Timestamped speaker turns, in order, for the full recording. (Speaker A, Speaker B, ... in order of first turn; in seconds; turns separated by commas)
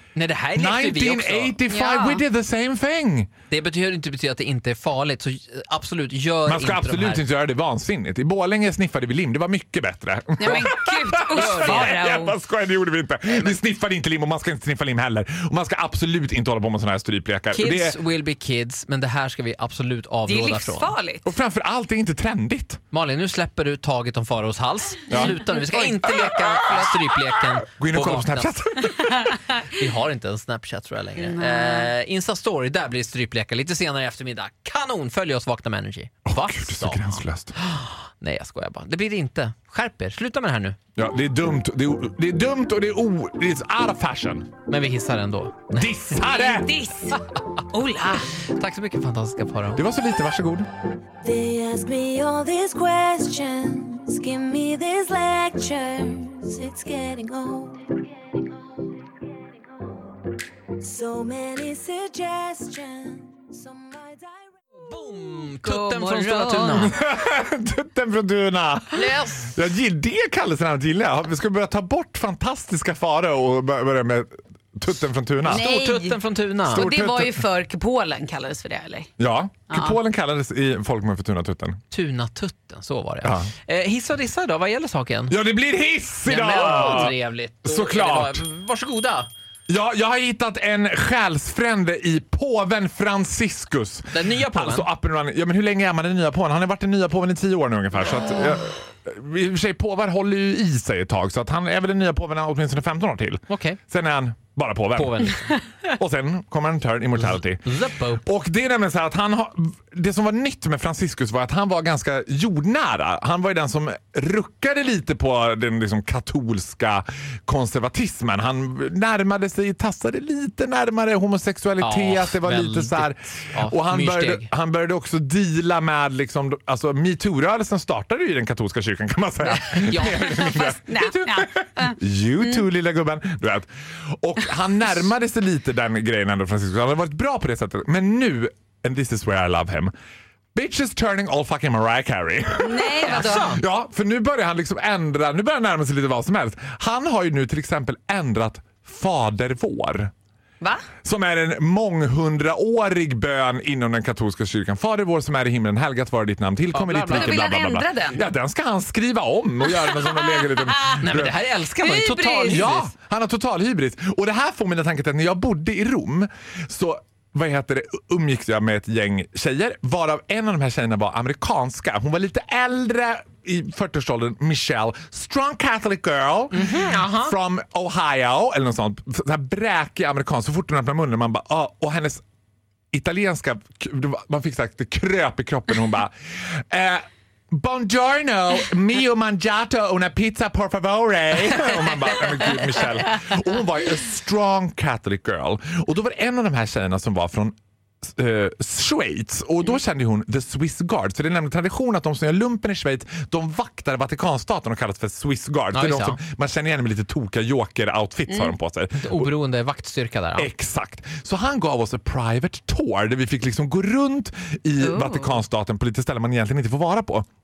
Speaker A: 0.1-1.6, Speaker B: 0.6-3.3, Speaker C: 1.7-2.2, Speaker A: 3.5-7.2, Speaker B: 6.5-18.0, Speaker C: 10.4-12.4, Speaker A: 11.3-12.0, Speaker A: 13.3-13.6, Speaker A: 17.5-20.9, Speaker C: 20.3-21.3, Speaker B: 21.2-22.8, Speaker A: 22.9-28.5, Speaker B: 25.1-25.4, Speaker C: 25.1-27.0, Speaker B: 26.1-29.4, Speaker A: 29.7-40.8, Speaker C: 31.2-31.9, Speaker B: 36.3-37.5, Speaker B: 41.0-44.5, Speaker A: 44.7-45.9, Speaker B: 45.7-46.8, Speaker C: 46.2-48.3, Speaker A: 48.5-49.8, Speaker B: 49.8-50.7, Speaker D: 51.2-58.0, Speaker D: 60.8-64.5, Speaker A: 64.8-67.0, Speaker C: 65.6-66.9, Speaker B: 66.7-75.7, Speaker C: 69.0-69.5, Speaker C: 75.5-76.2, Speaker A: 75.5-76.9, Speaker B: 76.7-77.4, Speaker C: 76.7-79.1, Speaker B: 79.2-81.8, Speaker C: 79.7-80.0, Speaker A: 81.9-85.4, Speaker B: 83.2-83.5, Speaker B: 85.3-88.5, Speaker A: 86.3-89.3, Speaker B: 89.7-133.7, Speaker A: 94.1-94.9, Speaker A: 103.5-103.8, Speaker A: 105.0-105.5, Speaker A: 107.2-108.2, Speaker A: 121.8-124.5, Speaker A: 129.5-130.4, Speaker C: 130.2-132.6, Speaker B: 134.2-139.9, Speaker B: 140.6-150.1, Speaker C: 142.6-143.5, Speaker A: 143.0-143.6, Speaker C: 150.6-150.9, Speaker B: 151.0-161.3, Speaker A: 156.7-157.4, Speaker C: 157.1-158.2, Speaker C: 160.2-160.7, Speaker A: 161.0-162.9, Speaker C: 161.8-162.7, Speaker B: 162.5-182.2, Speaker A: 176.5-177.3, Speaker B: 182.9-209.3, Speaker A: 205.7-206.2, Speaker C: 208.3-208.6, Speaker A: 209.0-210.5, Speaker B: 210.4-217.3, Speaker C: 214.8-215.4